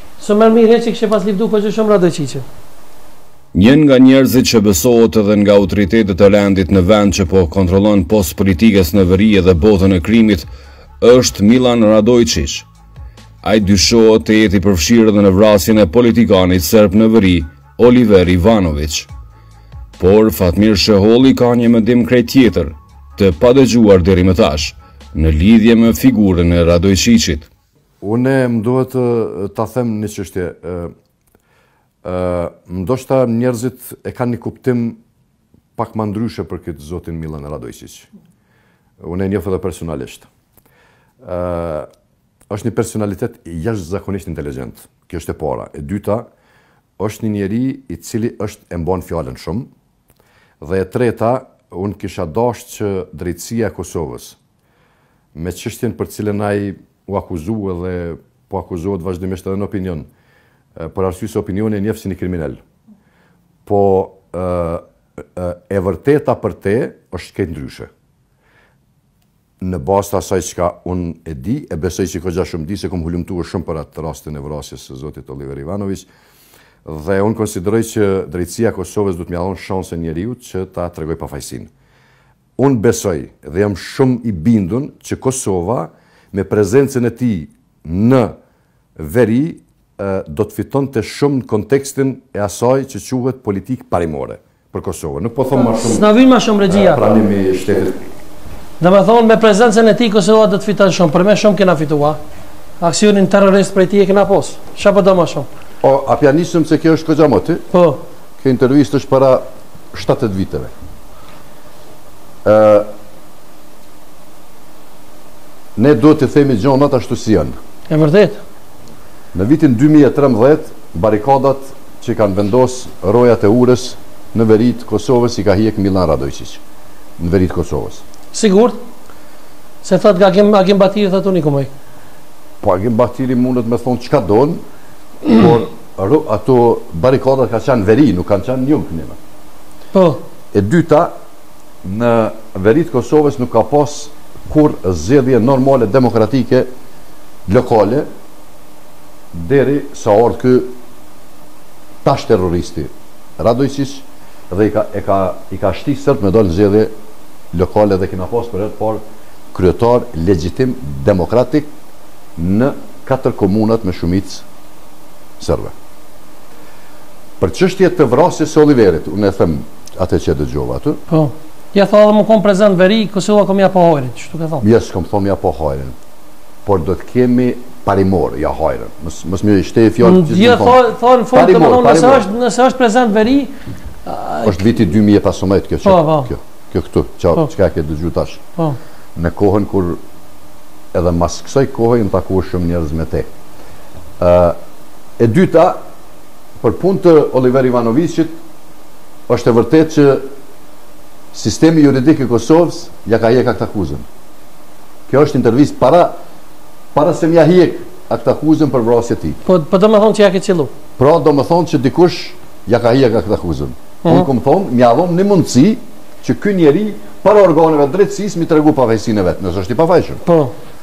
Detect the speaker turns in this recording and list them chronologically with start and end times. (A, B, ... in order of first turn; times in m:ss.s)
0:00.2-0:02.4 A
0:03.5-0:10.5 B
0:11.0-0:12.7 B
0:13.4-0:19.1 B
0:20.0-0:27.5 B
0:28.0-0:30.9 C
0:32.0-0:35.0 C
0:35.8-0:38.1 C
0:39.0-0:40.3 C
0:41.2-0:41.9 C
0:42.5-0:46.2 C
0:47.0-0:49.7 C
0:50.6-0:54.4 C
0:55.3-1:00.0 C
1:00.8-1:02.6 C
1:03.6-1:04.8 C
1:05.4-1:07.9 C
1:09.6-1:16.1 C
1:16.8-1:21.7 C
1:22.6-1:28.3 C
1:29.0-1:36.0 C
1:35.7-1:37.0 A
1:36.6-1:37.9 C
1:38.8-1:42.2 A
1:42.8-1:45.5 A
1:45.8-1:47.6 C
1:47.7-1:48.0 A
1:48.4-1:50.7 C
1:52.4-1:52.9 C
1:55.8-1:57.6 C
1:57.9-1:58.4 A
1:59.3-2:06.6 C
2:07.2-2:08.0 C
2:08.3-2:08.8 A
2:09.8-2:11.7 A
2:12.6-2:14.6 C
2:15.2-2:19.2 C
2:19.9-2:20.2 A
2:20.5-2:21.1 C
2:21.8-2:26.7 C
2:27.5-2:28.0 C
2:29.3-2:30.7 C
2:32.0-2:36.9 C
2:37.5-2:39.0 C
2:39.5-2:41.7 C
2:42.4-2:44.4 C
2:45.4-2:45.7 C
2:47.4-2:51.0 C
2:51.1-2:54.6 A
2:54.6-2:55.9 C
2:56.6-3:00.8 C
3:00.0-3:03.5 A
3:01.3-3:02.3 C
3:04.0-3:04.6 A
3:04.4-3:08.4 C
3:05.8-3:06.3 A
3:09.2-3:10.0 C
3:10.9-3:13.3 C
3:14.2-3:14.6 C
3:15.2-3:15.8 C
3:16.6-3:18.3 C
3:19.3-3:20.2 C
3:21.3-3:24.0 C
3:25.1-3:26.1 C
3:26.9-3:29.4 C
3:29.4-3:30.7 A
3:31.0-3:40.2 C
3:40.2-3:40.5 A